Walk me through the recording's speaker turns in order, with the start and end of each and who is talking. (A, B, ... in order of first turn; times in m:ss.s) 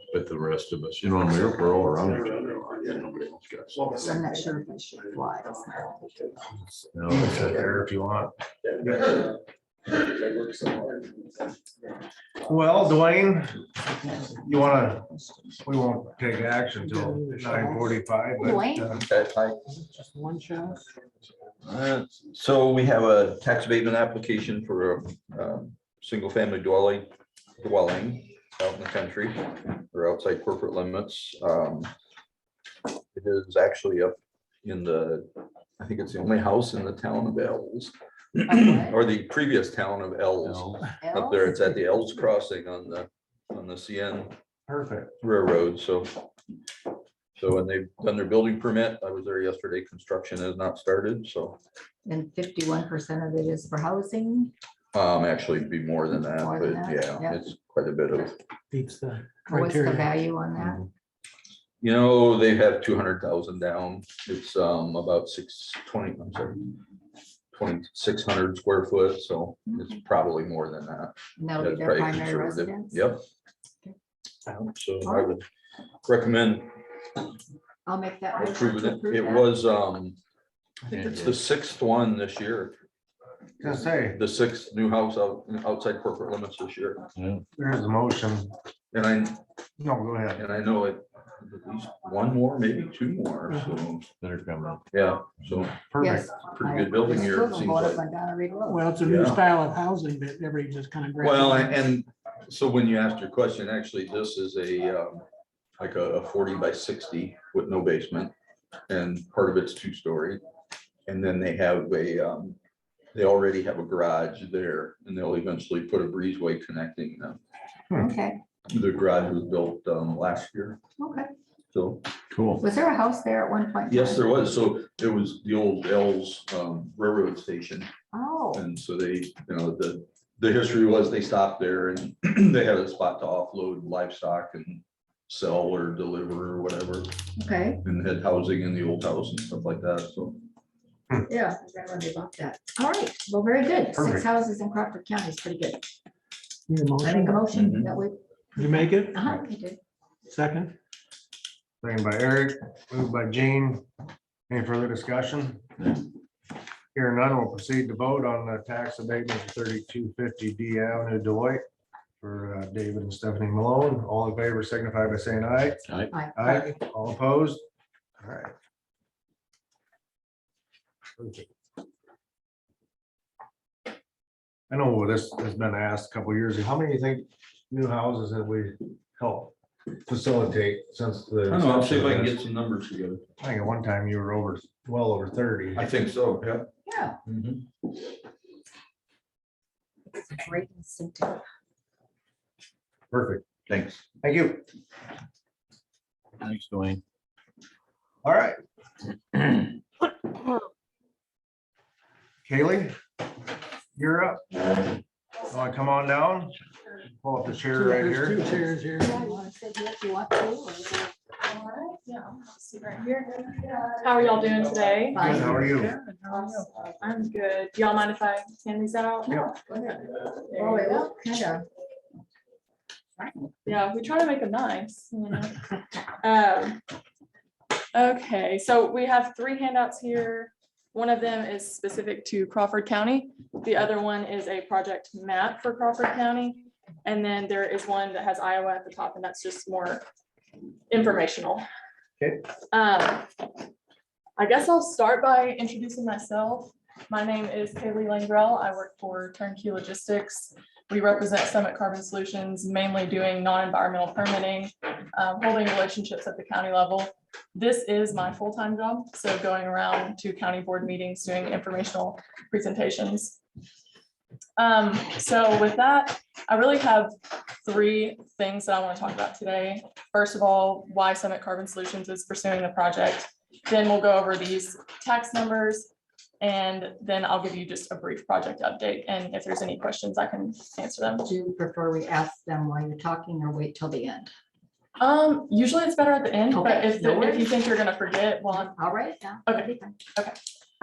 0:00.1-0:03.8 A
0:03.9-0:06.1 B
0:06.5-0:09.2 C
0:06.9-0:07.7 A
0:12.5-0:13.7 C
0:14.0-0:14.4 B
0:14.3-0:15.1 C
0:15.6-0:19.0 C
0:16.8-0:18.0 D
0:18.4-0:19.0 B
0:18.9-0:19.6 E
0:19.7-0:20.9 D
0:21.6-0:31.9 E
0:33.1-0:44.4 E
0:38.5-0:39.0 B
0:40.4-0:40.9 A
0:41.0-0:41.6 B
0:44.7-0:45.1 C
0:45.2-0:46.3 E
0:47.4-0:51.6 E
0:52.0-0:54.5 B
0:54.9-0:58.4 E
0:56.4-0:57.4 B
0:58.7-1:00.1 D
0:59.5-1:00.9 B
1:01.8-1:06.7 E
1:07.5-1:13.2 E
1:09.7-1:10.0 B
1:11.4-1:13.0 B
1:14.5-1:15.4 E
1:15.0-1:15.4 B
1:16.0-1:16.7 E
1:17.9-1:19.5 B
1:18.4-1:20.2 E
1:20.9-1:22.8 E
1:20.9-1:21.4 A
1:23.6-1:24.2 C
1:23.6-1:27.0 E
1:27.2-1:27.4 A
1:27.6-1:28.5 C
1:28.9-1:29.4 E
1:29.8-1:30.4 C
1:30.4-1:34.1 E
1:33.5-1:33.8 D
1:34.1-1:34.8 A
1:34.9-1:38.0 E
1:35.9-1:36.2 C
1:36.0-1:38.9 B
1:38.7-1:41.8 D
1:39.0-1:39.4 E
1:41.2-1:45.2 E
1:45.8-1:48.3 E
1:48.9-1:50.4 E
1:51.1-1:52.6 E
1:53.1-1:57.4 E
1:57.9-1:58.4 B
1:58.7-2:00.8 E
2:01.0-2:01.3 B
2:01.7-2:02.1 E
2:02.3-2:02.6 A
2:02.6-2:04.2 B
2:03.9-2:07.9 E
2:08.1-2:08.6 B
2:08.5-2:17.1 E
2:17.4-2:17.8 B
2:17.8-2:20.4 E
2:21.3-2:25.8 B
2:24.0-2:24.3 C
2:26.7-2:27.4 D
2:27.0-2:29.8 B
2:27.5-2:28.0 E
2:28.6-2:29.2 D
2:30.3-2:30.8 D
2:31.8-2:33.8 C
2:34.5-2:35.7 C
2:36.9-2:41.6 C
2:42.2-2:45.8 C
2:46.1-2:46.7 B
2:46.4-2:47.6 C
2:48.2-2:48.5 C
2:51.2-2:51.5 C
2:54.7-2:59.5 C
3:00.1-3:02.4 C
3:01.5-3:03.2 E
3:03.4-3:05.9 C
3:05.8-3:06.7 E
3:06.9-3:07.2 B
3:07.2-3:07.7 E
3:10.1-3:11.4 B
3:13.1-3:13.5 C
3:13.7-3:14.0 E
3:14.2-3:14.6 C
3:16.4-3:17.0 A
3:18.2-3:18.6 C
3:22.4-3:23.0 C
3:24.0-3:24.8 C
3:25.5-3:26.6 C
3:27.1-3:28.4 C
3:27.7-3:29.4 D
3:29.0-3:31.1 B
3:31.4-3:35.5 F
3:35.1-3:35.7 B
3:35.2-3:36.0 C
3:35.6-3:36.1 D
3:36.3-3:39.5 F
3:39.3-3:41.6 B
3:40.5-3:41.1 F
3:43.2-3:43.5 B
3:43.7-3:45.6 F
3:46.2-3:46.8 F
3:47.9-4:00.0 F
4:00.9-4:01.6 F
4:02.7-4:03.3 F
4:04.4-4:23.4 F
4:24.6-4:35.9 F
4:36.4-4:41.3 F
4:41.2-4:44.3 B
4:45.0-4:48.7 F
4:46.5-4:47.5 B
4:48.5-4:50.0 B
4:49.5-4:50.4 F